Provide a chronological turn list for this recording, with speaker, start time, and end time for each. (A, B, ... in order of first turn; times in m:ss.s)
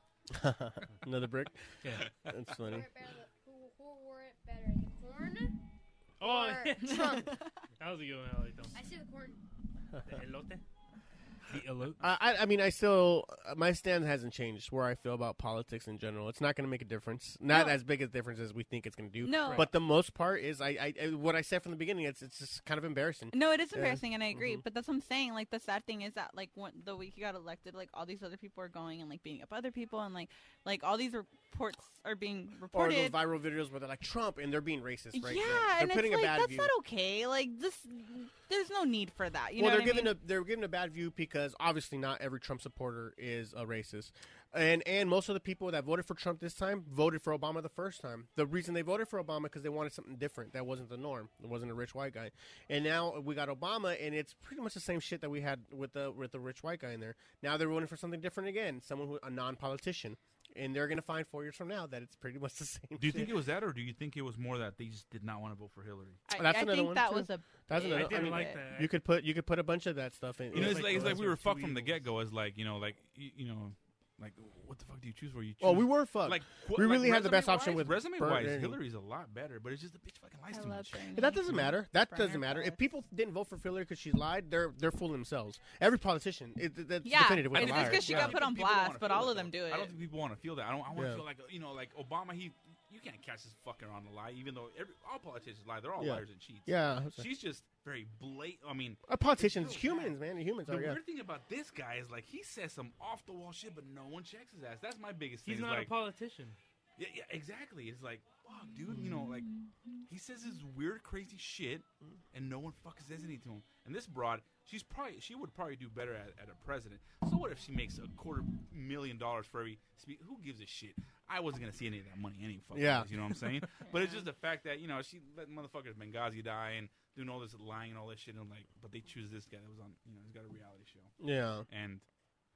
0:00.3-0:02.9 A
0:01.8-0:02.1 B
0:02.6-0:05.5 C
0:06.2-0:07.3 C
0:06.2-0:07.3 B
0:06.8-0:07.5 D
0:07.8-0:08.7 B
0:08.7-0:09.4 C
0:10.0-0:10.6 B
0:11.5-0:12.0 B
0:12.0-0:24.6 A
0:17.5-0:17.8 D
0:19.2-0:19.7 D
0:23.3-0:33.2 D
0:32.7-0:36.7 A
0:35.1-0:40.1 D
0:39.6-1:03.4 A
1:03.0-1:06.2 E
1:06.3-1:08.7 D
1:06.3-1:11.2 A
1:07.8-1:08.9 B
1:10.5-1:12.0 B
1:10.5-1:21.0 E
1:15.6-1:18.8 A
1:20.5-1:22.8 D
1:21.1-1:28.4 A
1:27.0-1:29.9 D
1:27.5-1:40.1 E
1:30.9-1:31.2 A
1:36.0-1:37.2 A
1:39.1-1:41.0 A
1:40.6-1:45.9 E
1:45.4-1:46.6 B
1:47.0-1:49.5 E
1:50.0-2:11.1 E
2:02.7-2:03.1 A
2:03.8-2:04.2 D
2:11.2-2:11.6 A
2:11.7-2:12.0 E